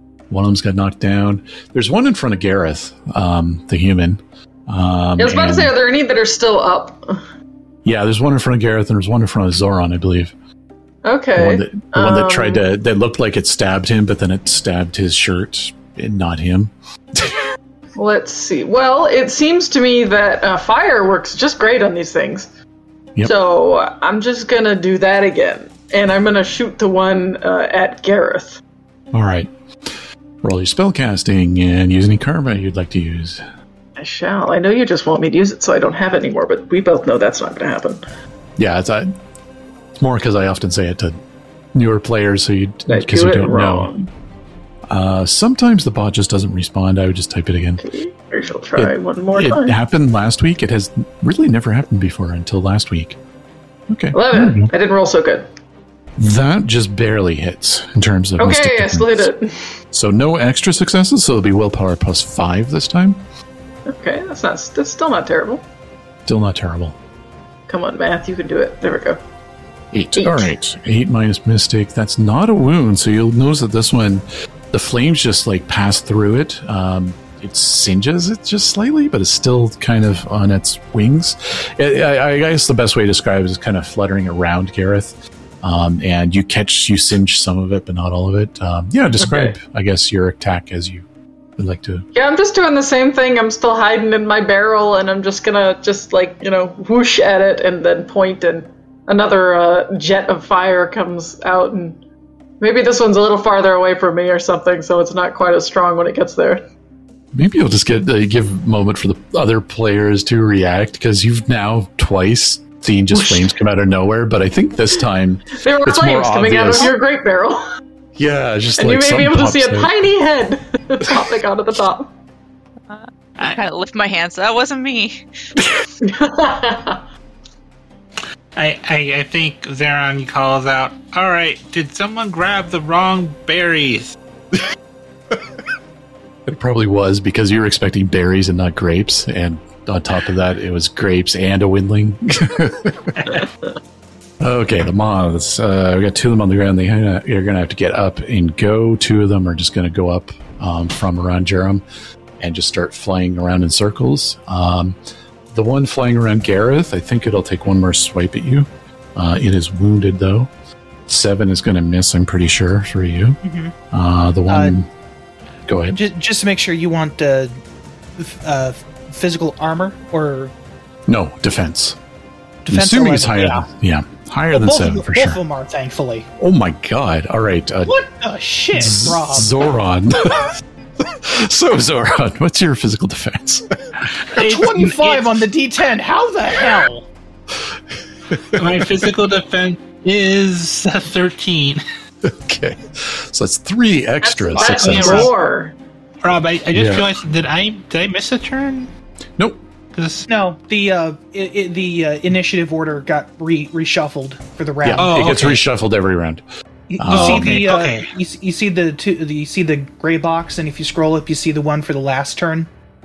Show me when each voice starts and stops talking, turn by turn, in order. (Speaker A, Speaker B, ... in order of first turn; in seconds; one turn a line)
Speaker A: 0.3-5.7
Speaker B: 5.2-7.2
Speaker A: 7.8-10.3
Speaker B: 11.1-12.6
Speaker A: 11.4-17.5
Speaker B: 17.9-22.5
Speaker B: 23.2-28.6
Speaker A: 29.1-33.5
Speaker B: 34.0-38.0
Speaker A: 38.6-39.1
Speaker A: 40.0-41.2
Speaker A: 41.7-43.9
Speaker B: 42.9-44.1
Speaker A: 44.9-47.9
Speaker B: 47.8-49.8
Speaker A: 48.8-53.2
Speaker A: 53.9-54.7
Speaker B: 54.1-55.5
Speaker A: 56.2-59.3
Speaker B: 58.4-59.7
Speaker A: 59.9-63.2
Speaker B: 63.9-65.6
Speaker A: 66.3-67.0
Speaker B: 67.7-69.2
Speaker A: 69.9-92.1
Speaker B: 70.2-70.5
Speaker B: 89.2-89.5
Speaker B: 92.1-102.0
Speaker B: 102.6-106.7
Speaker A: 107.3-117.0
Speaker B: 113.1-113.5
Speaker B: 115.5-117.6
Speaker A: 118.2-119.9
Speaker B: 118.8-122.1
Speaker C: 122.9-125.3
Speaker B: 126.0-127.0
Speaker D: 128.6-134.2
Speaker A: 136.5-143.2
Speaker D: 143.2-143.5
Speaker A: 144.4-151.8
Speaker A: 152.4-155.0
Speaker A: 155.5-160.5
Speaker A: 161.1-163.4
Speaker E: 163.4-163.8
Speaker A: 163.9-164.9
Speaker E: 164.5-164.8
Speaker A: 165.7-166.0
Speaker E: 165.9-167.6
Speaker E: 168.2-170.5
Speaker A: 171.1-172.0
Speaker E: 172.7-173.7
Speaker A: 172.7-175.4
Speaker E: 174.5-176.3
Speaker A: 176.4-177.9
Speaker E: 177.8-179.6
Speaker A: 178.7-183.8
Speaker D: 184.0-185.4
Speaker E: 184.3-187.1
Speaker A: 188.3-188.8
Speaker D: 188.5-191.8
Speaker A: 192.2-195.3
Speaker B: 194.2-195.7
Speaker D: 194.6-195.3
Speaker D: 196.2-198.9
Speaker A: 196.7-197.1
Speaker A: 199.4-199.6
Speaker D: 199.9-200.3
Speaker E: 200.3-205.2
Speaker A: 204.8-206.4
Speaker D: 205.0-205.6
Speaker E: 206.9-212.7
Speaker A: 207.0-207.7
Speaker D: 207.1-208.1